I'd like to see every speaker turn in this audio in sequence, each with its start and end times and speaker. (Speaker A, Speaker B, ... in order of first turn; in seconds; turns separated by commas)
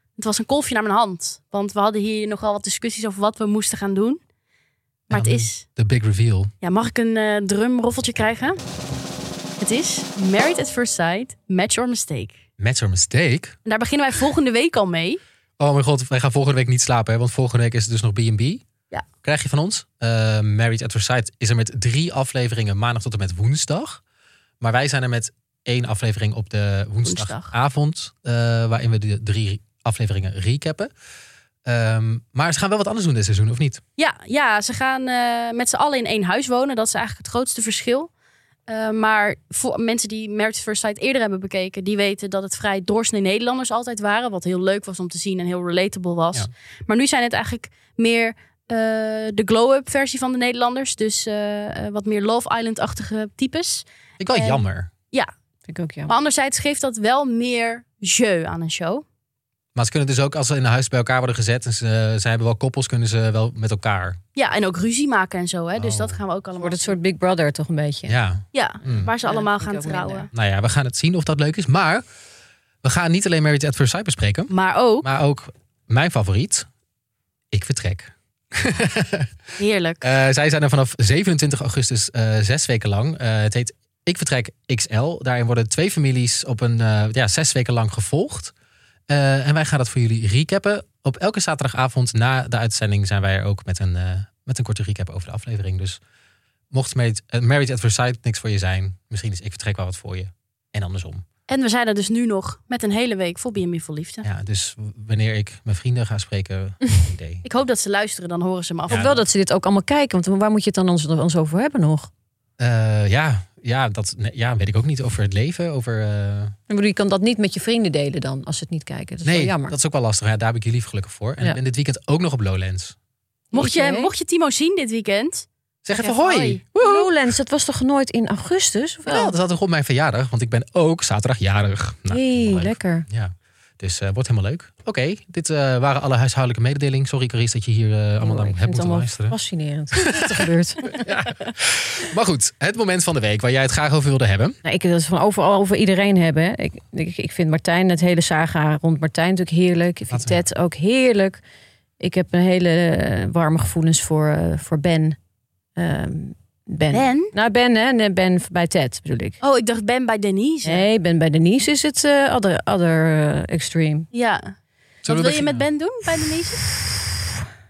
Speaker A: 0.2-4.2, Speaker A: 5.1-5.7, Speaker B: 5.1-6.5, Speaker A: 6.6-8.6, Speaker A: 9.6-12.4, Speaker B: 12.6-13.6, Speaker A: 13.7-15.2, Speaker B: 15.6-18.6, Speaker B: 19.2-24.0, Speaker B: 24.6-30.9, Speaker A: 27.1-27.5, Speaker B: 31.6-33.8, Speaker A: 34.0-38.1, Speaker A: 38.7-55.3, Speaker B: 54.2-54.9, Speaker C: 55.7-56.1, Speaker A: 56.1-59.0, Speaker B: 59.8-64.2, Speaker A: 64.3-67.0, Speaker B: 65.8-66.2, Speaker C: 66.6-68.2, Speaker B: 68.1-69.1, Speaker A: 68.5-70.3, Speaker C: 69.0-70.3, Speaker B: 70.3-72.0, Speaker B: 72.8-76.7, Speaker A: 74.5-75.1, Speaker B: 77.5-79.3, Speaker A: 79.6-80.1, Speaker B: 80.0-88.5, Speaker B: 89.1-96.0, Speaker B: 96.7-101.2, Speaker A: 101.5-104.3, Speaker B: 104.2-107.5, Speaker A: 107.4-109.2, Speaker B: 108.9-109.2, Speaker C: 108.9-112.1, Speaker B: 112.6-116.6, Speaker C: 116.7-119.8, Speaker B: 119.2-123.0, Speaker C: 123.5-124.1, Speaker A: 123.5-126.6, Speaker B: 125.8-127.2, Speaker C: 126.8-129.4, Speaker B: 129.1-139.3, Speaker C: 132.1-133.1, Speaker C: 138.2-141.3, Speaker B: 139.9-144.6, Speaker C: 144.6-151.4, Speaker B: 150.1-150.4, Speaker C: 152.0-155.2, Speaker C: 155.8-159.4, Speaker A: 156.9-157.3, Speaker A: 159.4-160.8, Speaker C: 160.7-164.1, Speaker A: 164.1-164.5, Speaker B: 165.1-165.7, Speaker A: 165.1-166.7